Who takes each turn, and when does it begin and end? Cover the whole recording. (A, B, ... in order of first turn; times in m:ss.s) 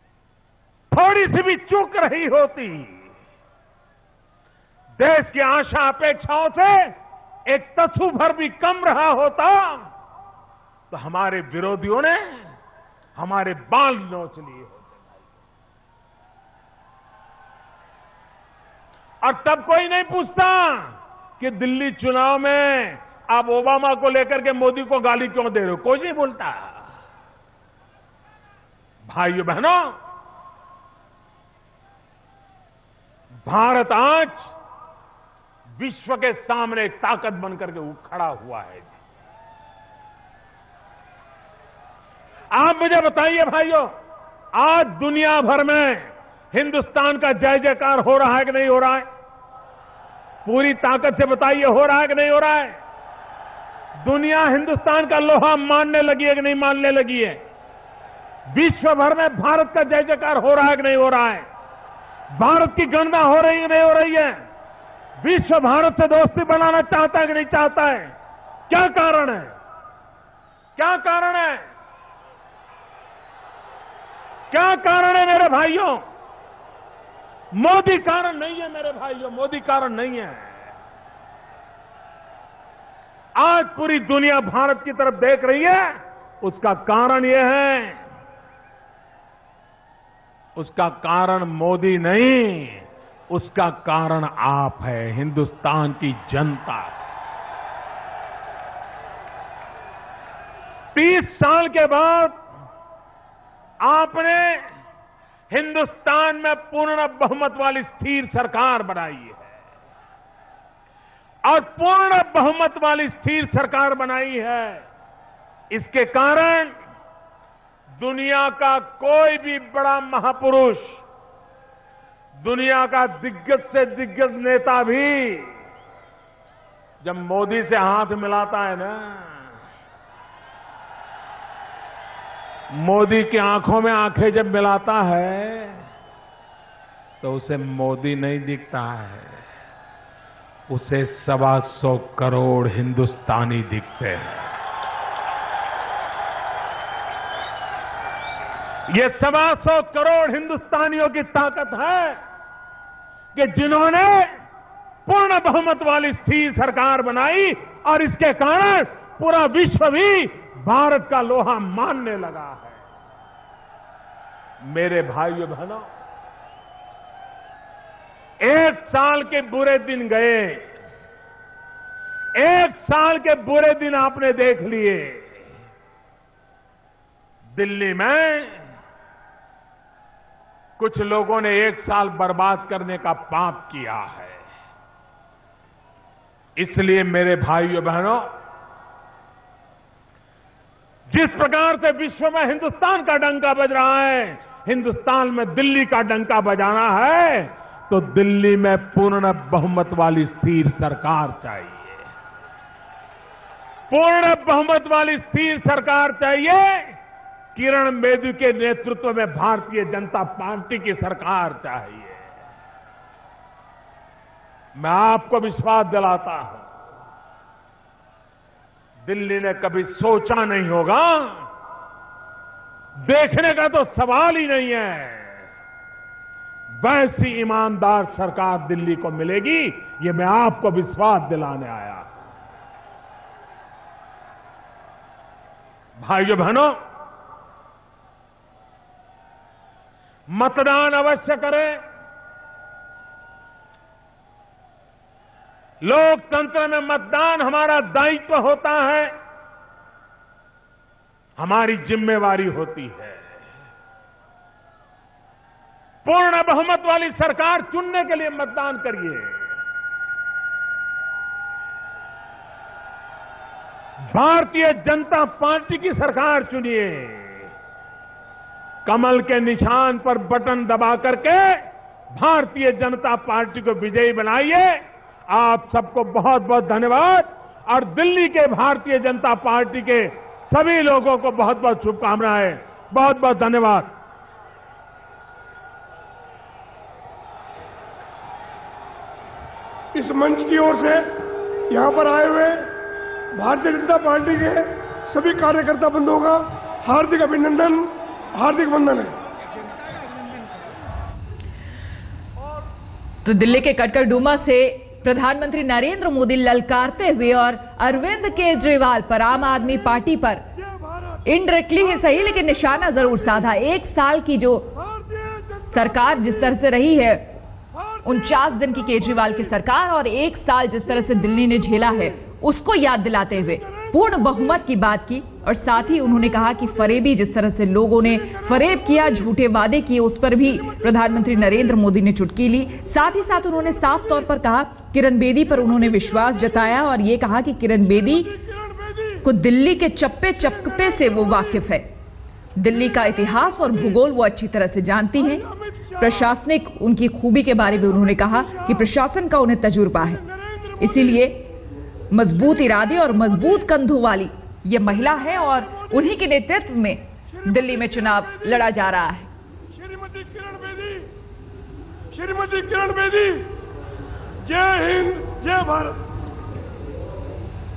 0:00.9-0:03.1 A
0:05.0-0:06.9 A
0:07.5-0:09.8 A
0:10.9-0:12.4 A
0:13.2-0:15.2 A
0:19.2-0:26.8 A
0:29.1-0:29.9 A
0:33.5-0:34.5 A
0:35.8-0:38.9 A
0:42.5-0:43.9 A
0:44.6-0:49.0 A
0:50.4-0:52.8 A
0:54.0-0:57.4 A
0:58.5-1:01.5 A
1:02.3-1:04.4 A
1:05.2-1:08.1 A
1:08.7-1:09.5 A
1:10.8-1:11.6 A
1:14.5-1:16.0 A
1:17.6-1:20.7 A
1:23.4-1:28.0 A
1:30.6-1:36.9 A
1:41.0-1:42.4 A
1:43.8-1:44.6 A
1:45.5-1:49.5 A
1:51.5-1:54.8 A
1:55.7-1:56.7 A
1:58.0-2:01.0 A
2:02.4-2:05.5 A
2:07.0-2:09.4 A
2:12.8-2:15.8 A
2:17.2-2:19.4 A
2:20.7-2:24.4 A
2:28.9-2:32.2 A
2:33.4-2:34.3 A
2:35.1-2:42.8 A
2:44.6-2:45.9 A
2:48.4-2:50.7 A
2:52.4-2:55.4 A
2:57.6-2:58.6 A
3:00.8-3:04.4 A
3:06.6-3:08.3 A
3:11.1-3:22.1 A
3:23.9-3:27.0 A
3:27.6-3:32.3 A
3:34.8-3:36.7 A
3:39.0-3:41.5 A
3:43.0-3:45.4 A
3:46.8-3:52.1 A
3:56.0-3:56.7 A
4:00.3-4:01.8 A
4:05.8-4:09.1 A
4:11.4-4:13.2 A
4:16.0-4:19.4 A
4:24.1-4:27.5 A
4:28.9-4:31.6 A
4:32.1-4:34.8 A
4:35.3-4:43.9 A
4:49.9-4:51.0 B
4:51.7-4:52.7 B
4:53.4-4:59.2 B
5:03.2-5:10.4 C
5:10.6-5:11.3 B
5:11.2-5:14.7 C
5:11.8-5:13.5 B
5:14.8-5:16.6 B
5:15.7-5:17.3 C
5:17.7-5:19.6 B
5:18.0-5:38.3 C
5:21.0-5:21.3 B
5:23.5-5:24.4 B
5:28.1-5:29.2 B
5:30.4-5:31.7 B
5:33.7-5:34.3 B
5:35.7-5:36.8 B
5:38.0-5:39.3 B
5:39.2-5:41.9 C
5:40.4-5:41.7 B
5:42.6-5:45.4 C
5:45.2-5:46.4 B
5:46.0-5:50.2 C
5:47.7-5:48.9 B
5:50.0-5:51.3 B
5:50.8-5:51.4 C
5:52.1-5:59.3 C
5:52.6-5:53.6 B
5:55.1-5:56.2 B
5:57.3-5:58.7 B
5:59.7-6:01.1 B
6:02.1-6:03.5 B
6:04.4-6:06.0 B